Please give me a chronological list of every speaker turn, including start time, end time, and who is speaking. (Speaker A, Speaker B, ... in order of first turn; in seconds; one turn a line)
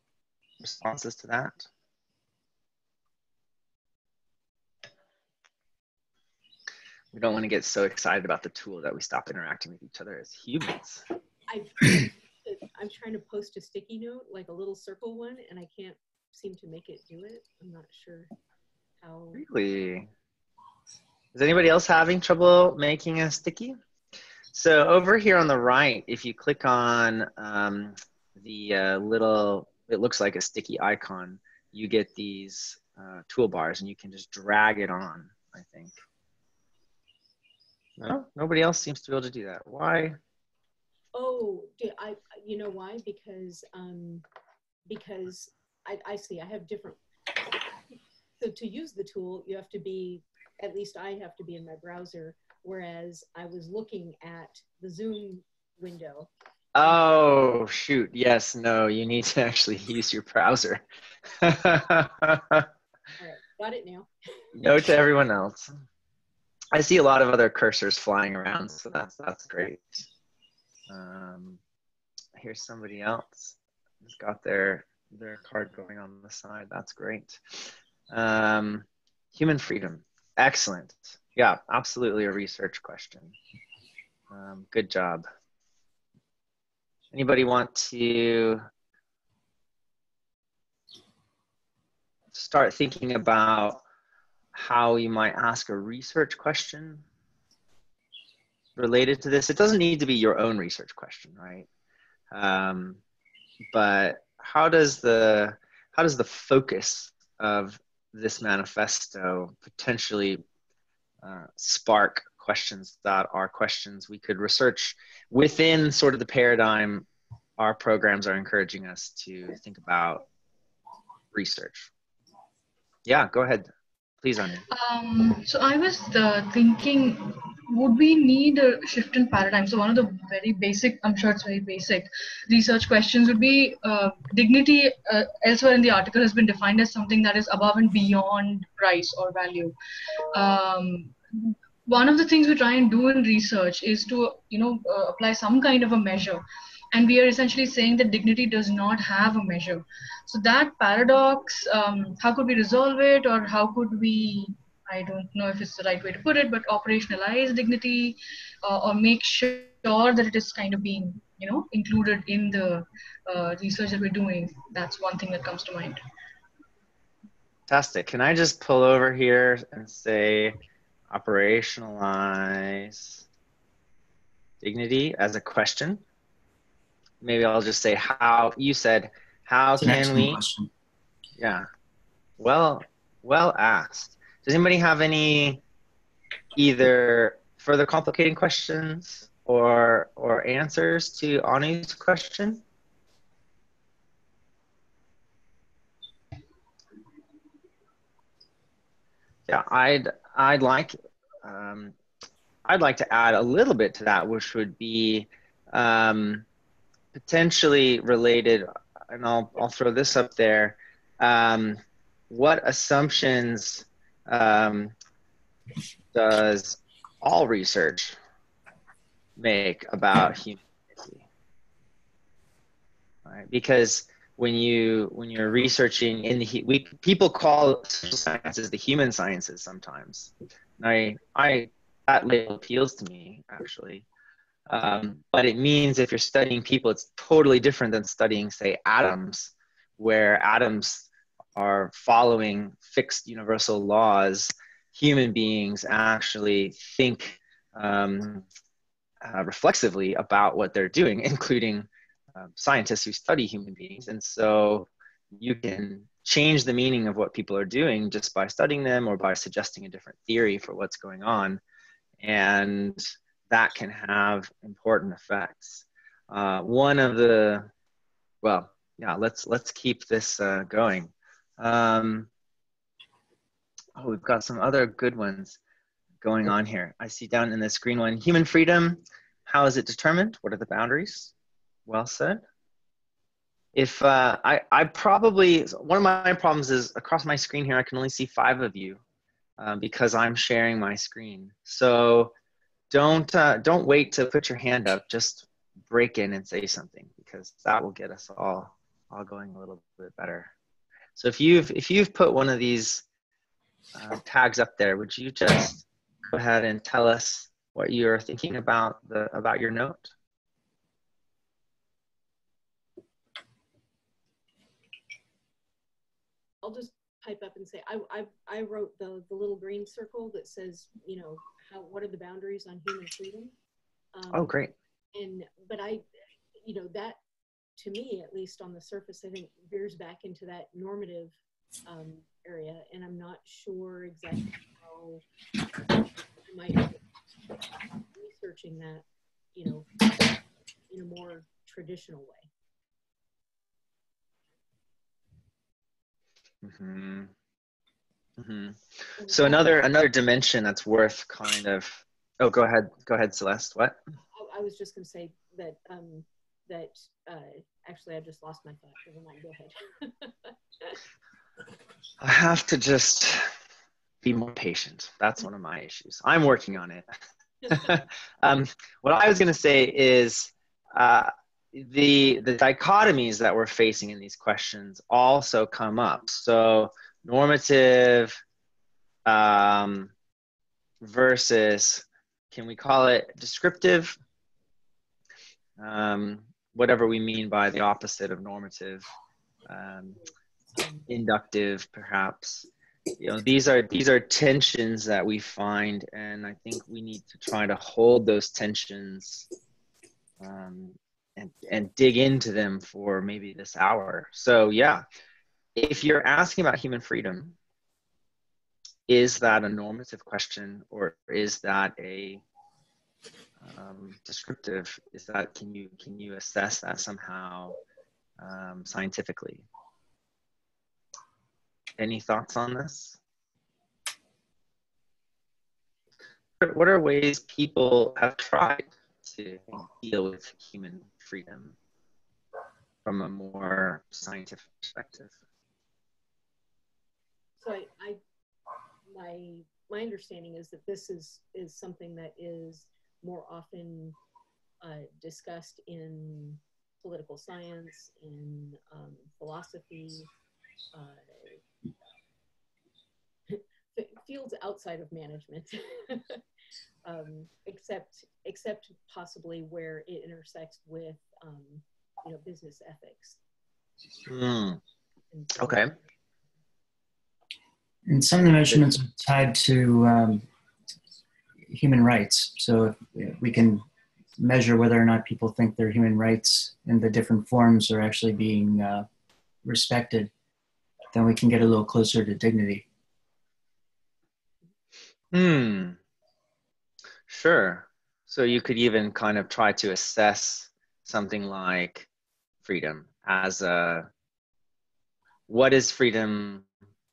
Speaker A: 0.6-1.7
Speaker A: 7.1-11.0
Speaker B: 11.5-18.3
Speaker B: 19.0-19.4
Speaker A: 19.3-20.1
Speaker A: 21.3-23.8
Speaker A: 24.5-36.0
Speaker A: 38.0-40.2
Speaker B: 41.1-44.2
Speaker B: 44.9-47.0
Speaker B: 48.4-56.3
Speaker A: 56.8-62.7
Speaker B: 63.2-64.1
Speaker A: 64.5-65.8
Speaker A: 66.7-70.1
Speaker A: 70.9-71.6
Speaker A: 72.4-83.3
Speaker A: 84.3-85.3
Speaker A: 87.1-88.7
Speaker A: 92.3-93.8
Speaker A: 94.5-97.0
Speaker A: 98.8-101.7
Speaker A: 102.3-103.0
Speaker A: 103.7-110.4
Speaker A: 111.2-117.1
Speaker A: 117.6-120.3
Speaker A: 121.3-121.9
Speaker A: 123.1-123.7
Speaker A: 124.2-124.6
Speaker C: 124.7-139.8
Speaker C: 140.3-146.4
Speaker C: 146.9-166.0
Speaker A: 167.7-170.6
Speaker A: 171.1-173.2
Speaker A: 174.6-176.0
Speaker A: 177.2-180.4
Speaker D: 179.8-180.7
Speaker A: 181.4-181.7
Speaker A: 182.4-185.6
Speaker A: 186.6-192.6
Speaker A: 199.5-201.9
Speaker A: 202.7-206.4
Speaker A: 207.1-214.9
Speaker A: 216.1-218.2
Speaker A: 219.4-221.2
Speaker A: 223.2-234.1
Speaker A: 234.7-248.5
Speaker A: 249.2-261.6
Speaker A: 262.2-267.7
Speaker A: 268.4-272.3
Speaker A: 274.0-275.6
Speaker A: 276.2-281.3
Speaker A: 281.9-282.4
Speaker A: 283.7-289.0
Speaker A: 289.6-292.3
Speaker A: 292.9-300.5
Speaker A: 301.2-303.0
Speaker A: 303.9-310.1
Speaker B: 316.6-323.6
Speaker B: 324.1-324.6
Speaker A: 324.3-324.7
Speaker B: 325.1-326.0
Speaker B: 326.6-327.2
Speaker B: 327.8-331.4
Speaker B: 331.9-335.2
Speaker B: 336.4-337.0
Speaker B: 338.1-340.3
Speaker B: 340.9-342.5
Speaker A: 346.6-347.3
Speaker A: 348.4-354.0
Speaker B: 349.2-349.6
Speaker B: 354.3-361.0
Speaker A: 362.2-363.5
Speaker A: 364.2-367.1
Speaker A: 367.7-378.4
Speaker A: 379.3-380.1
Speaker A: 381.0-384.2
Speaker A: 385.8-389.1
Speaker A: 389.7-390.2
Speaker B: 390.8-391.1
Speaker A: 391.1-392.7
Speaker A: 393.2-399.5
Speaker A: 400.4-405.0
Speaker A: 405.8-407.6
Speaker A: 409.1-412.4
Speaker A: 413.6-417.8
Speaker A: 418.4-419.7
Speaker A: 422.0-423.2
Speaker A: 426.6-431.8
Speaker A: 433.1-435.4
Speaker B: 437.6-438.2
Speaker B: 439.1-444.2
Speaker B: 444.8-450.3
Speaker B: 450.9-451.6
Speaker B: 453.5-456.4
Speaker B: 457.1-463.4
Speaker A: 464.3-464.8
Speaker B: 465.3-466.1
Speaker A: 465.6-465.9
Speaker D: 468.1-470.4
Speaker D: 471.7-473.8
Speaker D: 474.4-479.1
Speaker D: 479.6-480.3
Speaker D: 481.1-482.9
Speaker A: 485.3-486.0
Speaker A: 487.3-492.1
Speaker A: 492.6-494.1
Speaker A: 495.5-496.7